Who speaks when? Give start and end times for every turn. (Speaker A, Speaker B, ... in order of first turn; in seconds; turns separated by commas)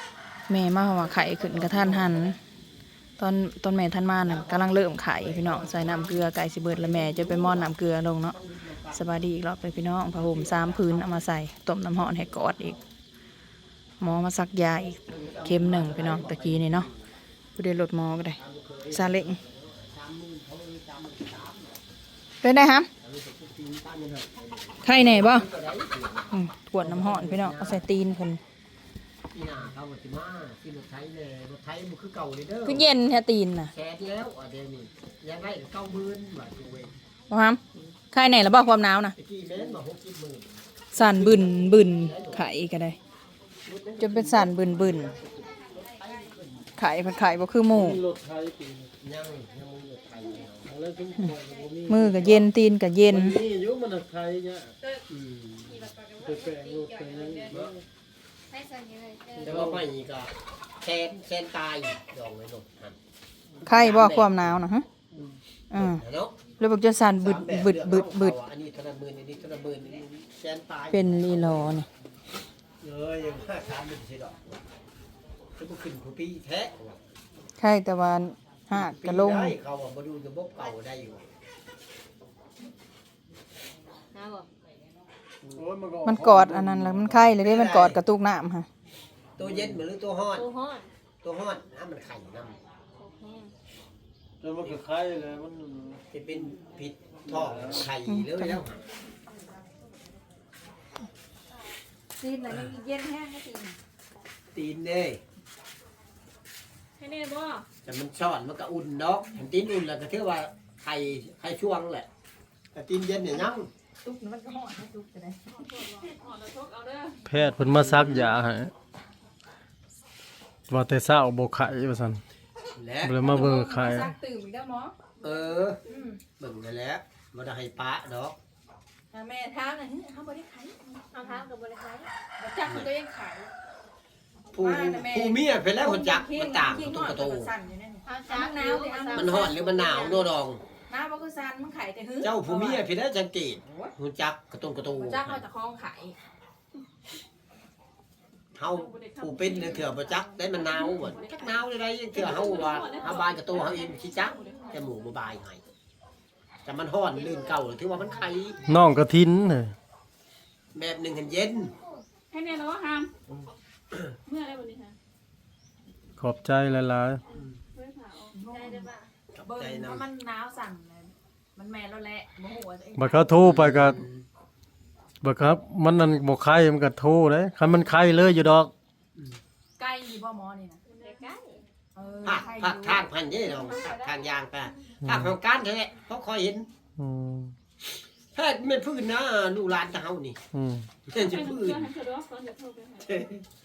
Speaker A: 0.5-2.4, Speaker B: 1.1-2.4, Speaker A: 3.2-8.4, Speaker B: 4.2-7.7, Speaker B: 8.3-9.2, Speaker A: 8.9-12.8, Speaker B: 10.1-11.2, Speaker B: 12.4-12.8, Speaker A: 14.0-16.9, Speaker B: 15.1-17.0, Speaker A: 17.6-18.4, Speaker B: 18.4-21.8, Speaker A: 18.9-19.4, Speaker A: 22.4-22.9, Speaker B: 23.0-27.8, Speaker A: 24.8-25.5, Speaker A: 26.3-28.4, Speaker B: 29.3-32.9, Speaker A: 32.6-33.7, Speaker B: 33.7-37.0, Speaker A: 37.3-39.1, Speaker B: 39.2-42.4, Speaker A: 40.9-43.0, Speaker B: 43.7-45.5, Speaker A: 44.0-45.1, Speaker A: 46.8-48.0, Speaker C: 47.7-48.9, Speaker B: 49.0-50.7, Speaker C: 50.7-52.5, Speaker A: 51.9-53.4, Speaker C: 53.1-54.7, Speaker B: 55.1-55.8, Speaker D: 55.7-57.5, Speaker C: 56.2-57.8, Speaker D: 58.5-59.5, Speaker C: 59.4-59.9, Speaker B: 59.4-63.0, Speaker B: 63.6-64.6, Speaker A: 63.6-64.8, Speaker A: 65.7-66.0, Speaker B: 65.8-66.4, Speaker A: 66.6-68.4, Speaker B: 67.2-71.8, Speaker A: 70.9-71.9, Speaker B: 72.8-74.6, Speaker B: 75.6-77.0, Speaker A: 77.6-79.5, Speaker B: 78.7-81.3, Speaker D: 84.1-84.5, Speaker C: 85.4-87.3, Speaker A: 86.0-88.7, Speaker B: 87.4-88.0, Speaker B: 89.4-90.5, Speaker C: 89.4-89.8, Speaker D: 90.3-90.9, Speaker B: 91.2-92.6, Speaker D: 93.0-93.5, Speaker C: 94.4-96.0, Speaker B: 96.1-98.8, Speaker C: 97.2-97.9, Speaker A: 98.1-98.6, Speaker A: 102.2-103.8, Speaker B: 104.5-105.2, Speaker D: 107.0-107.6, Speaker B: 107.8-112.1, Speaker B: 112.7-113.7, Speaker A: 114.0-115.5, Speaker D: 115.7-116.7, Speaker A: 116.4-117.1, Speaker C: 117.3-118.7, Speaker B: 117.5-118.3, Speaker C: 120.7-122.2, Speaker B: 122.7-123.6, Speaker C: 123.0-124.1, Speaker A: 123.2-124.9, Speaker B: 125.2-125.8, Speaker A: 125.9-126.2, Speaker B: 126.4-128.4, Speaker A: 129.1-131.4, Speaker D: 131.1-132.1, Speaker A: 132.4-133.5, Speaker B: 134.5-137.5, Speaker A: 134.6-139.5, Speaker D: 138.0-140.3, Speaker B: 139.1-140.6, Speaker A: 140.9-142.8, Speaker B: 142.2-145.4, Speaker A: 145.0-146.1, Speaker B: 148.5-155.7, Speaker A: 149.2-149.8, Speaker D: 152.2-153.7, Speaker A: 152.7-153.2, Speaker B: 156.6-158.6, Speaker C: 158.7-159.7, Speaker B: 160.7-161.7, Speaker A: 162.3-163.1, Speaker A: 164.3-164.9, Speaker C: 166.2-167.2, Speaker D: 167.8-169.1, Speaker A: 168.3-168.9, Speaker B: 169.3-170.1, Speaker A: 169.4-173.3, Speaker C: 173.0-174.0, Speaker B: 173.4-174.2, Speaker C: 175.2-178.7, Speaker A: 179.8-181.2, Speaker D: 180.8-181.6, Speaker A: 181.9-184.0, Speaker B: 182.2-186.7, Speaker C: 185.0-185.3, Speaker C: 187.0-187.5, Speaker B: 188.3-190.4, Speaker C: 190.5-190.9, Speaker B: 191.0-191.9, Speaker D: 191.2-193.2, Speaker B: 193.0-193.4